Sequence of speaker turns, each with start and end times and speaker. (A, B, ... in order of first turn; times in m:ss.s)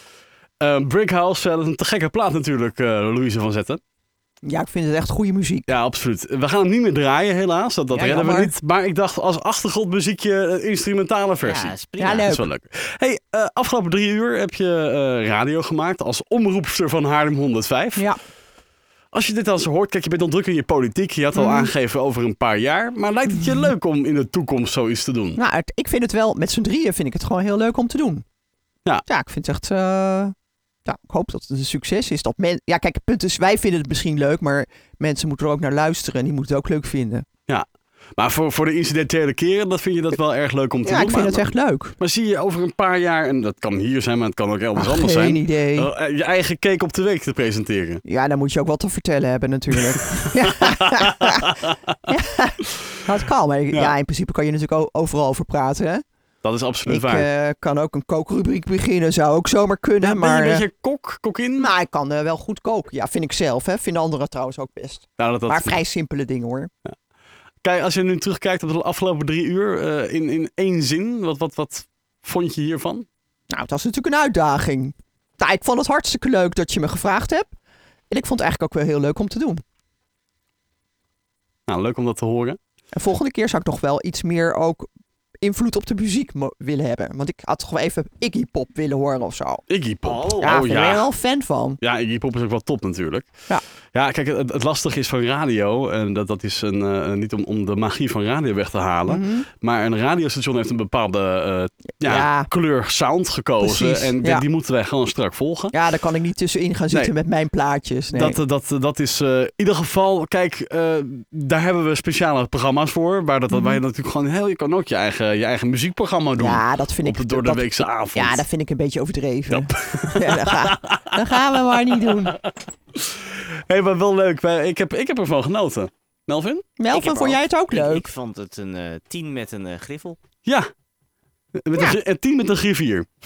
0:00.6-0:03.8 A
0:04.4-0:05.7 B
0:05.7-0:18.1 A
0:07.9-0:08.5 B
0:11.4-0:12.3 C
0:12.0-0:12.5 B
0:19.1-0:25.4 A
0:21.4-0:21.7 B
0:23.4-0:23.7 B
0:25.4-0:28.2 B
0:29.1-0:30.3 B
0:30.8-0:37.2 B
0:37.5-0:41.5 A
0:40.8-0:42.0 B
0:42.0-0:48.0 A
0:44.8-0:45.9 B
0:48.0-0:51.5 B
0:50.4-0:51.7 A
0:52.1-0:56.0 B
0:56.4-0:57.3 A
0:56.9-1:00.7 B
1:00.0-1:01.7 A
1:01.6-1:06.7 B
1:05.2-1:05.8 A
1:07.6-1:13.1 A
1:13.5-1:17.5 B
1:18.1-1:19.6 B
1:21.7-1:22.6 A
1:22.9-1:24.9 B
1:25.4-1:29.6 B
1:29.7-1:31.1 A
1:30.0-1:30.6 C
1:30.4-1:31.8 B
1:31.8-1:33.3 A
1:33.9-1:45.8 A
1:39.1-1:39.5 B
1:42.0-1:42.5 B
1:43.6-1:44.4 B
1:45.7-1:48.4 B
1:48.1-1:58.4 A
1:53.5-1:53.8 B
1:56.4-2:02.4 B
1:59.5-2:01.1 A
2:02.5-2:06.6 A
2:06.8-2:08.1 B
2:06.9-2:10.2 C
2:10.4-2:10.7 A
2:11.6-2:13.1 A